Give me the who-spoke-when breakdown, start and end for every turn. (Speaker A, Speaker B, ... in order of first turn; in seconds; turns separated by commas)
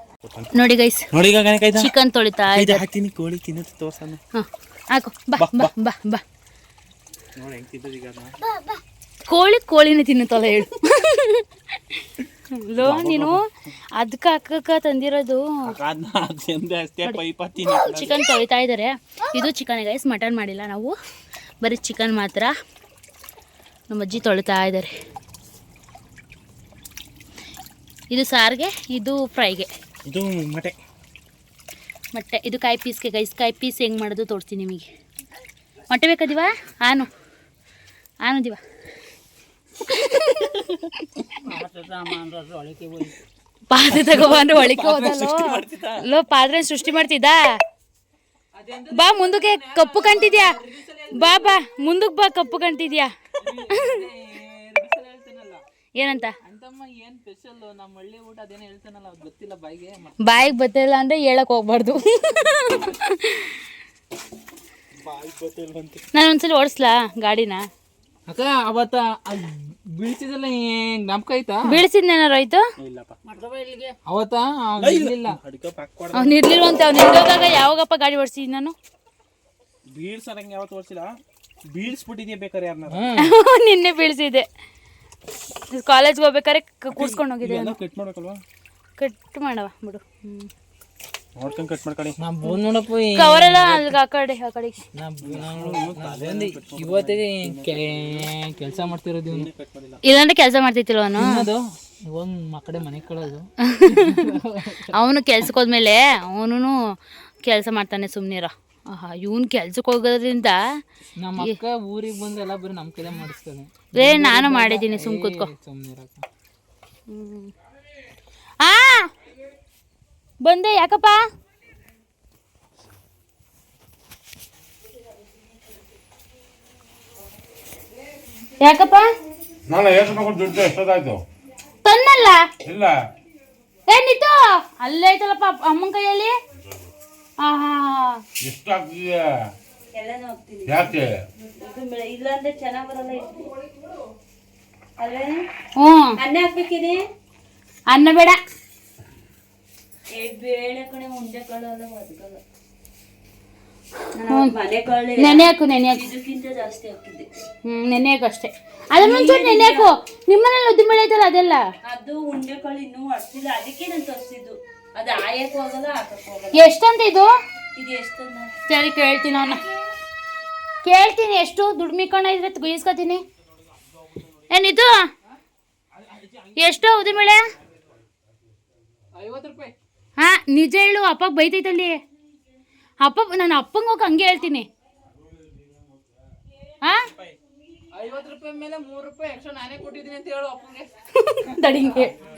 Speaker A: 0.5-1.1, Speaker B: 1.1-1.9, Speaker A: 1.7-2.8, Speaker B: 2.5-4.2, Speaker A: 4.3-6.2, Speaker B: 5.4-5.7, Speaker B: 7.4-8.3, Speaker A: 9.3-13.4, Speaker B: 12.8-13.4, Speaker A: 13.9-15.7, Speaker B: 15.7-18.1, Speaker A: 17.8-20.9, Speaker A: 21.6-22.5, Speaker A: 23.9-24.9, Speaker A: 28.1-29.7, Speaker B: 30.1-30.8, Speaker A: 32.1-34.9, Speaker A: 35.9-37.1, Speaker A: 38.2-38.6, Speaker A: 39.9-41.3, Speaker C: 41.5-43.1, Speaker A: 43.7-47.4, Speaker B: 44.1-46.0, Speaker C: 48.5-51.6, Speaker A: 48.9-50.6, Speaker A: 51.1-53.1, Speaker C: 53.4-55.6, Speaker A: 53.7-54.0, Speaker A: 56.0-56.3, Speaker C: 56.4-60.5, Speaker A: 60.2-63.6, Speaker B: 65.0-66.0, Speaker A: 66.1-67.6, Speaker C: 68.3-71.8, Speaker A: 71.7-72.6, Speaker B: 72.8-73.2, Speaker C: 73.6-75.4, Speaker B: 74.8-76.4, Speaker A: 76.1-78.7, Speaker B: 79.9-81.1, Speaker B: 81.7-83.1, Speaker C: 82.9-83.2, Speaker A: 83.2-84.5, Speaker A: 85.7-87.8, Speaker B: 86.9-88.4, Speaker A: 89.0-90.5, Speaker B: 91.3-92.2, Speaker C: 92.2-93.9, Speaker A: 93.1-94.8, Speaker C: 95.0-99.5, Speaker B: 95.2-98.3, Speaker B: 99.2-100.0, Speaker A: 100.0-101.5, Speaker C: 101.2-104.9, Speaker A: 103.7-106.8, Speaker A: 107.4-110.6, Speaker C: 111.2-116.2, Speaker A: 113.9-115.5, Speaker A: 117.1-117.5, Speaker A: 118.6-119.1, Speaker A: 120.4-121.2, Speaker A: 128.6-129.1, Speaker D: 129.7-131.2, Speaker A: 131.8-132.4, Speaker D: 132.7-132.9, Speaker A: 133.9-136.3, Speaker A: 137.4-138.2, Speaker D: 138.4-139.2, Speaker E: 139.9-143.5, Speaker D: 140.7-141.1, Speaker E: 145.0-145.4, Speaker A: 145.8-146.2, Speaker E: 146.2-147.0, Speaker A: 147.9-148.4, Speaker E: 150.1-152.4, Speaker E: 154.2-157.3, Speaker A: 154.3-154.5, Speaker A: 155.2-156.1, Speaker A: 157.7-161.6, Speaker E: 159.0-159.9, Speaker E: 161.8-166.6, Speaker A: 166.5-167.3, Speaker E: 167.7-168.5, Speaker A: 168.7-169.6, Speaker A: 170.8-173.2, Speaker A: 174.5-174.9, Speaker A: 176.6-177.4, Speaker C: 179.2-179.7, Speaker A: 180.2-182.0, Speaker A: 183.0-184.7, Speaker C: 187.9-190.9, Speaker A: 191.2-192.1